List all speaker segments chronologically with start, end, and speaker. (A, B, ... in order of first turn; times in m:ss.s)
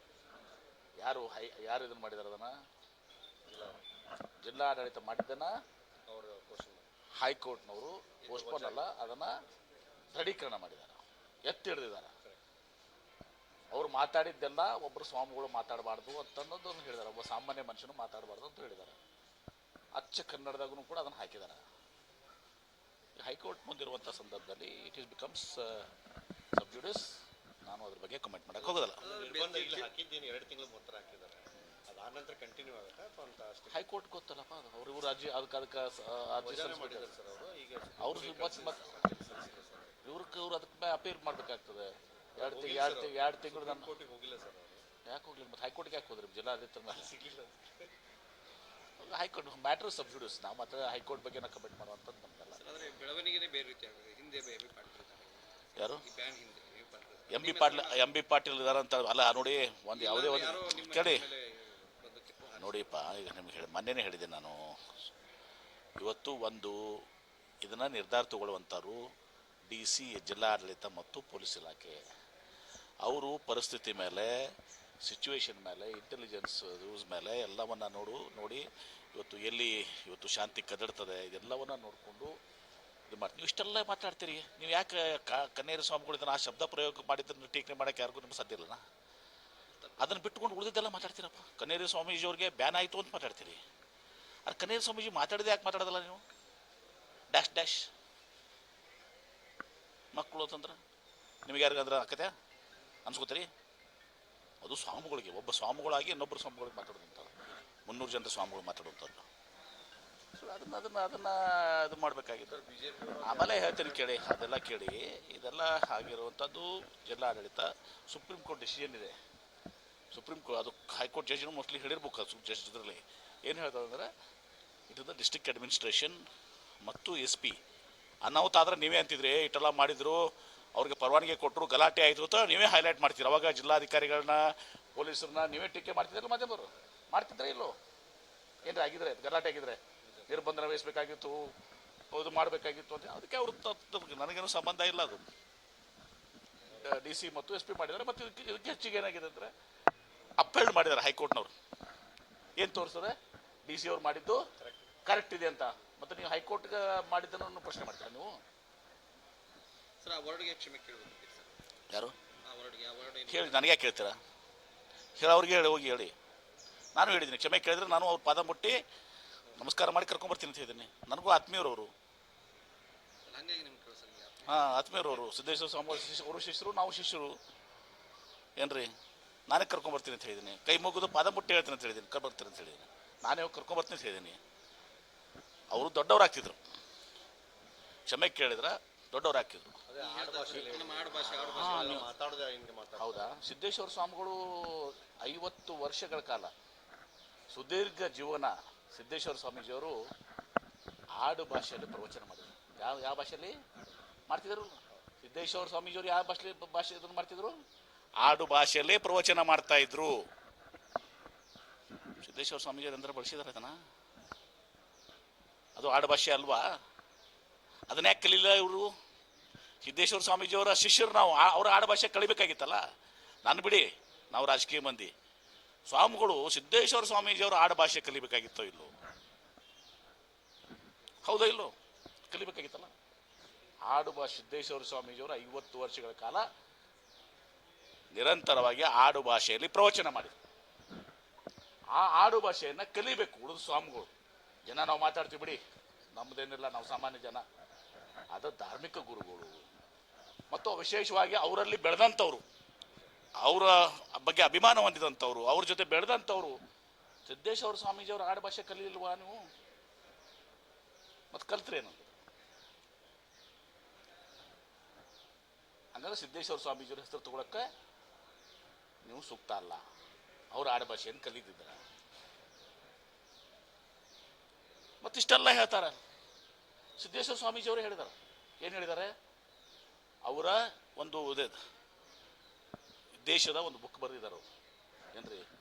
0:01.0-0:02.5 A
0:03.5-0:03.8 B
0:04.4-0:05.5 A
0:06.1-0:06.9 B
0:07.2-0:09.4 A
0:08.3-0:09.2 B
0:10.1-0:12.1 A
0:13.7-0:19.0 A
0:20.0-0:21.6 A
0:23.2-0:25.9 A
0:26.6-0:27.1 A
0:27.7-0:29.0 A
0:28.8-0:29.9 C
0:29.0-0:34.0 B
0:33.7-0:37.1 A
0:36.4-0:40.0 B
0:38.0-0:38.9 A
0:40.0-0:43.9 A
0:42.4-0:44.8 B
0:45.1-0:47.1 A
0:46.9-0:47.9 B
0:49.0-0:52.6 A
0:52.5-0:58.1 C
0:55.8-0:56.0 A
0:57.3-1:01.3 A
0:59.9-1:03.0 C
1:02.6-1:04.7 A
1:06.0-1:07.0 A
1:07.6-1:09.0 A
1:09.7-1:12.0 A
1:13.0-1:14.5 A
1:15.0-1:22.4 A
1:23.1-1:28.8 A
1:29.8-1:30.1 C
1:30.0-1:33.6 A
1:34.5-1:36.2 A
1:37.3-1:37.9 A
1:40.1-1:40.8 A
1:41.5-1:42.3 A
1:43.1-1:43.5 A
1:44.6-1:47.3 A
1:47.9-1:49.2 A
1:50.4-1:52.6 A
1:52.5-1:54.1 B
1:53.2-1:59.2 A
2:00.1-2:04.1 A
2:04.9-2:06.2 A
2:06.8-2:07.6 A
2:08.2-2:17.8 A
2:18.6-2:21.5 A
2:20.0-2:20.4 B
2:22.1-2:25.3 A
2:26.8-2:29.5 A
2:30.4-2:31.5 A
2:32.6-2:34.5 A
2:34.6-2:34.9 B
2:35.1-2:38.4 A
2:40.0-2:41.6 C
2:41.9-2:42.2 A
2:42.4-2:43.8 C
2:43.3-2:44.2 A
2:45.2-2:46.1 A
2:47.0-2:48.8 A
2:49.6-2:51.9 A
2:53.3-2:55.2 C
2:54.5-2:57.4 A
2:58.6-2:58.9 A
2:59.5-3:04.4 A
3:05.7-3:06.6 A
3:08.1-3:09.8 A
3:09.9-3:13.4 B
3:10.0-3:12.1 C
3:11.5-3:12.0 A
3:13.0-3:16.5 A
3:17.5-3:20.0 A
3:21.2-3:23.6 A
3:24.3-3:27.6 A
3:28.2-3:30.3 A
3:32.2-3:33.8 A
3:35.8-3:36.7 A
3:37.9-3:38.9 A
3:39.8-3:42.8 A
3:43.4-3:45.1 A
3:45.9-3:48.9 A
3:51.2-3:51.7 A
3:52.3-3:52.9 A
3:53.9-3:56.5 A
3:58.1-4:00.3 A
4:01.9-4:04.1 A
4:04.7-4:05.6 A
4:06.1-4:07.4 A
4:08.3-4:09.6 A
4:10.5-4:12.4 A
4:13.4-4:16.6 A
4:17.3-4:19.5 A
4:21.3-4:22.0 A
4:26.0-4:27.7 A
4:29.0-4:29.8 A
4:30.5-4:31.8 A
4:35.0-4:36.0 A
4:37.0-4:39.1 A
4:40.3-4:41.6 A
4:43.2-4:44.5 A
4:45.2-4:45.5 A